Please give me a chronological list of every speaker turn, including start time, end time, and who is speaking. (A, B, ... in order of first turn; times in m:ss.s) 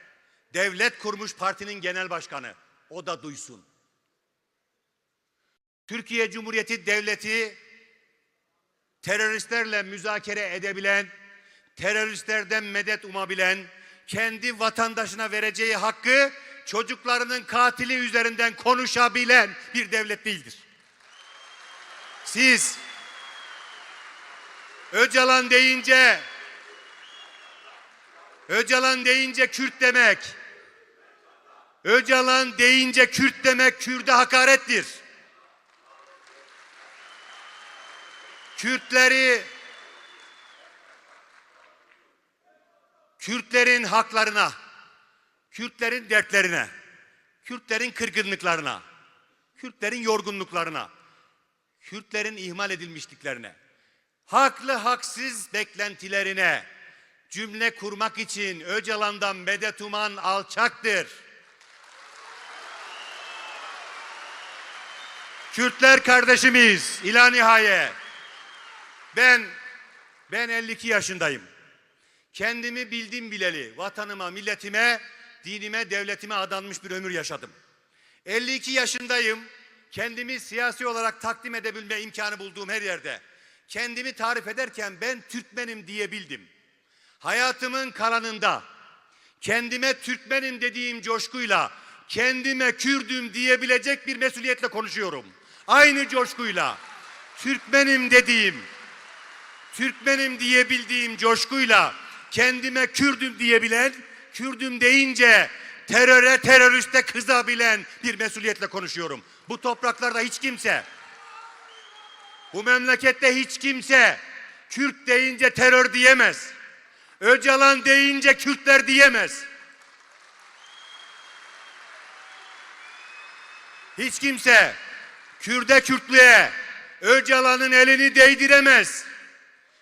0:00.5-0:03.6 A
0:05.9-0:07.6 A
0:09.0-0:11.1 A
0:11.8-0:20.6 A
0:22.2-0:22.8 A
0:24.9-0:26.2 A
0:28.5-0:30.3 A
0:31.8-0:35.0 A
0:38.6-0:39.5 A
0:43.2-0:44.5 A
0:45.5-0:46.7 A
0:47.4-0:48.8 A
0:49.6-0:50.9 A
0:51.8-0:53.6 A
0:54.3-0:56.6 A
0:57.3-1:01.1 A
1:05.5-1:07.9 A
1:09.1-1:09.5 A
1:10.3-1:11.4 A
1:12.3-1:17.5 A
1:18.2-1:26.5 A
1:27.2-1:28.6 A
1:29.4-1:36.8 A
1:37.4-1:38.7 A
1:39.7-1:50.8 A
1:52.5-1:56.5 A
1:57.2-1:59.4 A
2:04.0-2:04.8 A
2:05.4-2:09.1 A